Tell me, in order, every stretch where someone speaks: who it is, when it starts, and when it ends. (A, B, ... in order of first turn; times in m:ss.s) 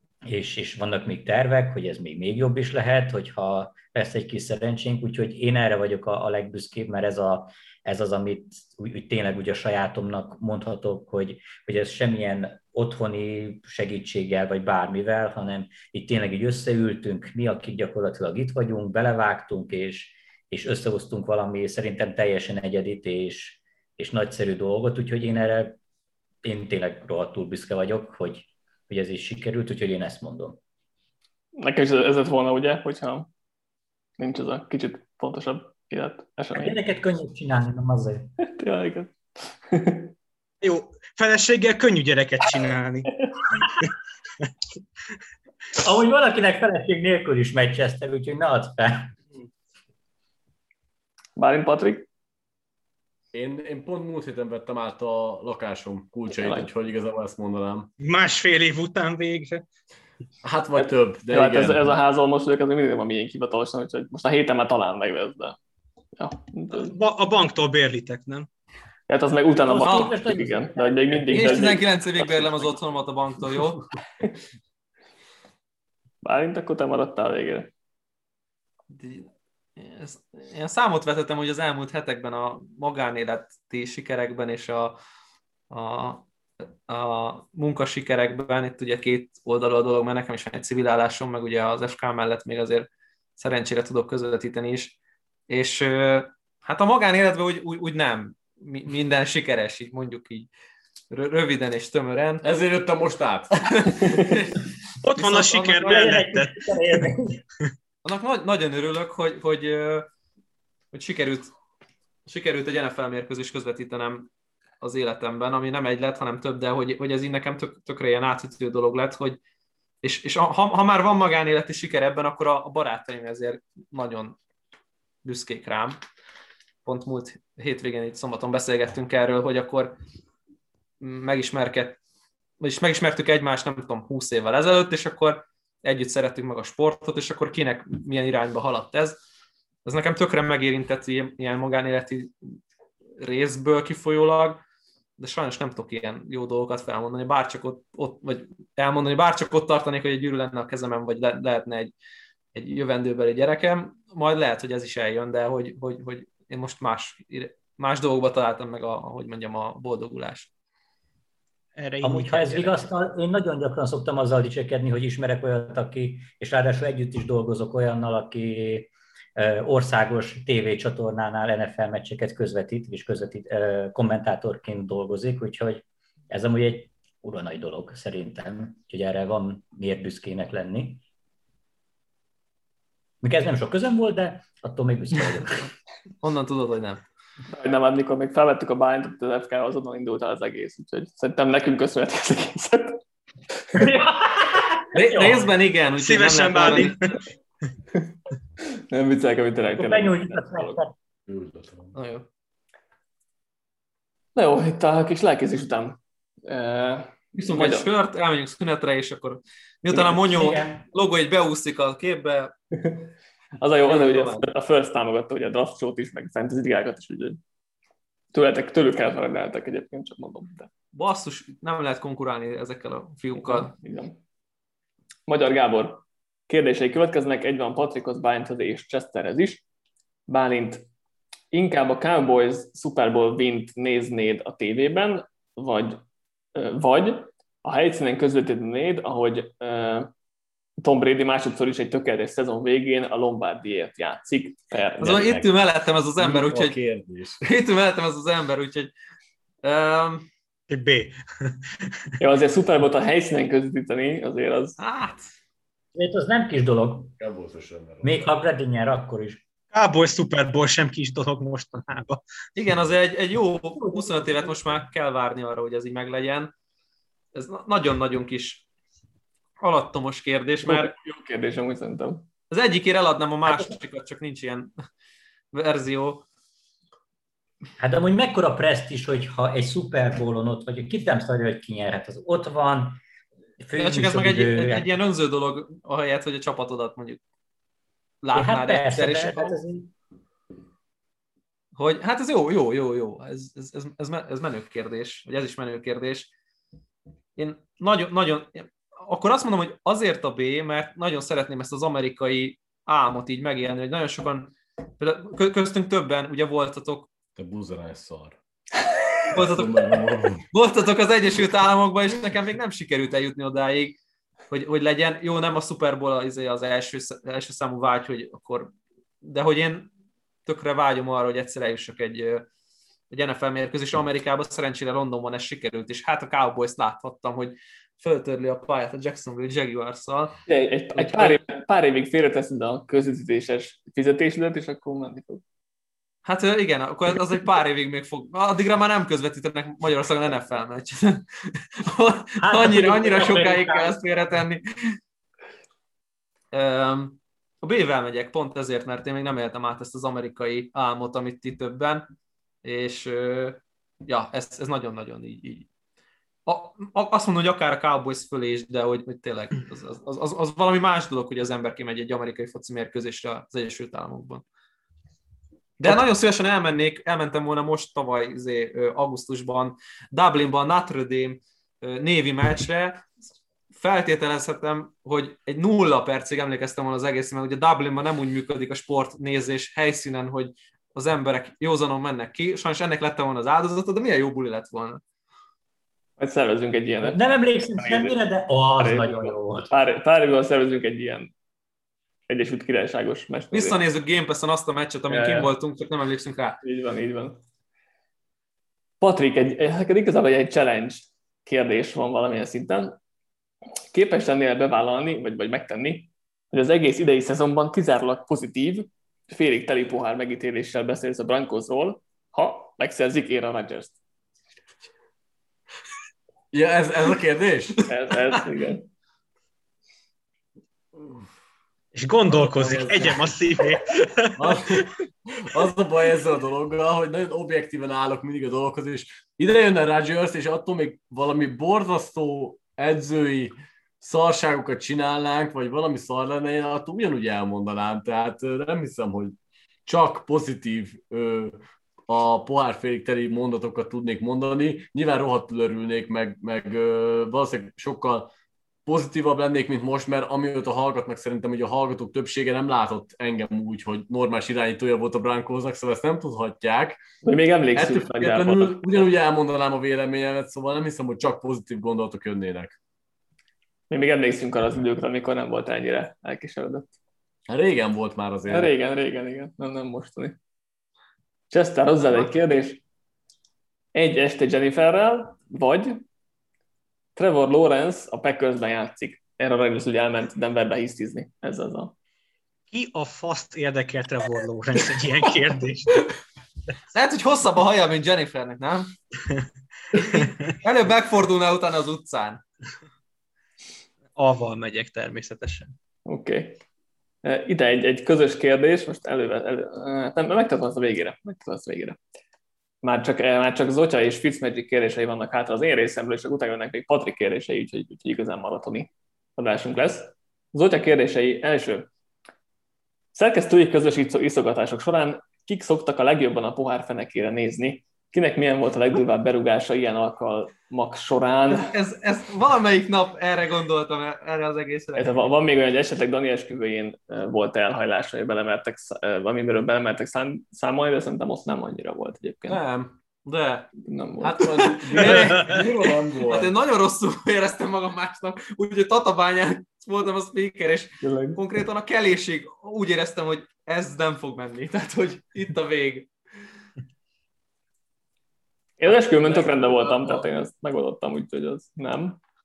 0:00.2-0:25.8 A
0:26.4-0:30.6 A
0:31.6-0:33.3 B
0:34.2-0:36.8 B
0:36.5-0:38.3 A
0:38.6-0:40.1 B
0:40.6-0:43.9 C
0:45.8-0:49.1 A
0:51.4-0:52.1 B
0:53.3-0:57.9 D
0:56.4-0:56.7 B
0:58.0-0:59.6 C
1:00.4-1:01.9 D
1:00.8-1:05.6 B
1:06.2-1:07.0 B
1:06.7-1:08.5 C
1:09.1-1:11.8 B
1:09.6-1:11.9 A
1:11.3-1:13.8 E
1:16.2-1:17.7 B
1:18.9-1:25.0 E
1:25.7-1:26.2 E
1:26.9-1:35.0 E
1:35.5-1:40.5 E
1:41.1-1:42.4 E
1:42.4-1:44.2 D
1:43.8-1:44.6 E
1:45.0-1:47.1 C
1:45.2-1:46.2 E
1:45.8-1:47.4 A
1:48.0-1:50.1 E
1:50.9-1:51.5 E
1:52.3-1:54.3 E
1:54.8-1:59.4 E
2:00.0-2:04.4 E
2:05.2-2:06.0 E
2:06.8-2:10.0 E
2:11.0-2:12.0 E
2:12.6-2:19.2 E
2:19.8-2:22.3 E
2:23.2-2:24.6 E
2:25.2-2:31.9 E
2:32.6-2:40.5 E
2:41.8-2:42.8 C
2:42.0-3:01.0 A
3:03.2-3:05.6 A
3:06.2-3:07.0 E
3:07.5-3:13.0 B
3:13.8-3:15.4 A
3:14.9-3:17.2 E
3:16.0-3:17.2 C
3:18.9-3:20.8 B
3:19.8-3:20.9 A
3:21.3-3:21.9 D
3:21.9-3:22.3 E
3:24.4-3:27.9 B
3:27.4-3:32.5 E
3:29.9-3:30.8 A
3:33.6-3:37.4 B
3:33.8-3:34.5 E
3:38.3-3:40.7 B
3:40.9-3:43.7 E
3:43.4-3:44.2 B
3:45.3-3:49.6 B
3:50.3-3:50.8 B
3:51.5-3:56.0 B
3:56.6-4:00.1 B
4:00.8-4:05.5 B
4:05.0-4:06.8 E
4:06.2-4:07.4 D
4:07.4-4:08.9 E
4:09.6-4:10.3 E
4:10.7-4:12.0 C
4:12.2-4:14.8 B
4:14.8-4:15.3 E
4:16.0-4:17.1 A
4:17.2-4:18.3 D
4:18.0-4:19.4 A
4:19.7-4:22.2 C
4:22.6-4:26.5 E
4:23.8-4:24.6 A
4:27.4-4:28.6 E
4:29.6-4:30.9 E
4:30.6-4:32.2 B
4:32.5-4:34.7 E
4:33.5-4:33.7 A
4:35.5-4:36.2 E
4:37.8-4:43.0 A
4:43.6-4:44.9 A
4:43.8-4:47.2 E
4:48.2-4:49.6 E
4:48.3-4:49.9 A
4:51.8-4:56.3 E
4:57.4-5:07.1 E
5:07.4-5:08.4 D
5:09.3-5:14.0 E
5:09.4-5:10.4 D
5:14.5-5:19.9 E
5:20.5-5:22.5 E
5:23.1-5:30.4 E
5:30.5-5:35.4 B
5:30.9-5:31.4 E
5:36.2-5:41.2 E
5:41.8-5:45.0 E
5:42.4-5:44.0 A
5:46.5-5:52.1 E
5:52.6-5:55.7 E
5:56.5-6:04.4 E
6:05.8-6:13.1 E
6:13.7-6:25.0 E
6:26.2-6:27.2 B
6:27.0-6:29.7 A
6:27.8-6:28.1 B
6:28.8-6:31.3 B
6:32.3-6:33.8 B
6:33.5-6:36.6 E
6:35.1-6:35.5 B
6:36.6-6:37.4 B
6:39.0-6:43.0 B
6:43.9-6:54.0 B
6:56.5-6:57.8 D
6:57.9-6:58.9 B
7:01.0-7:01.2 D
7:02.0-7:04.8 C
7:02.3-7:03.4 D
7:04.4-7:19.4 D
7:19.9-7:28.3 D
7:28.9-7:37.0 D
7:37.2-7:39.1 B
7:37.8-7:42.8 D
7:43.9-7:46.9 B
7:47.5-7:48.7 D
7:48.5-7:50.4 B
7:51.5-7:52.8 B
7:54.0-7:56.0 B
7:57.2-8:01.9 B
8:02.7-8:06.1 C
8:06.9-8:08.9 E
8:09.9-8:10.5 C
8:09.9-8:12.4 E
8:14.2-8:15.7 C
8:16.1-8:16.6 B
8:17.2-8:22.0 B
8:22.8-8:31.9 B
8:33.1-8:41.7 B
8:41.5-8:45.2 E
8:45.0-8:52.6 B
8:52.5-8:52.9 D
8:53.3-8:53.7 E
8:53.8-8:55.2 B
8:54.2-8:56.5 D
8:54.9-9:06.1 E
9:01.0-9:01.4 B
9:08.8-9:12.2 B
9:08.8-9:10.3 E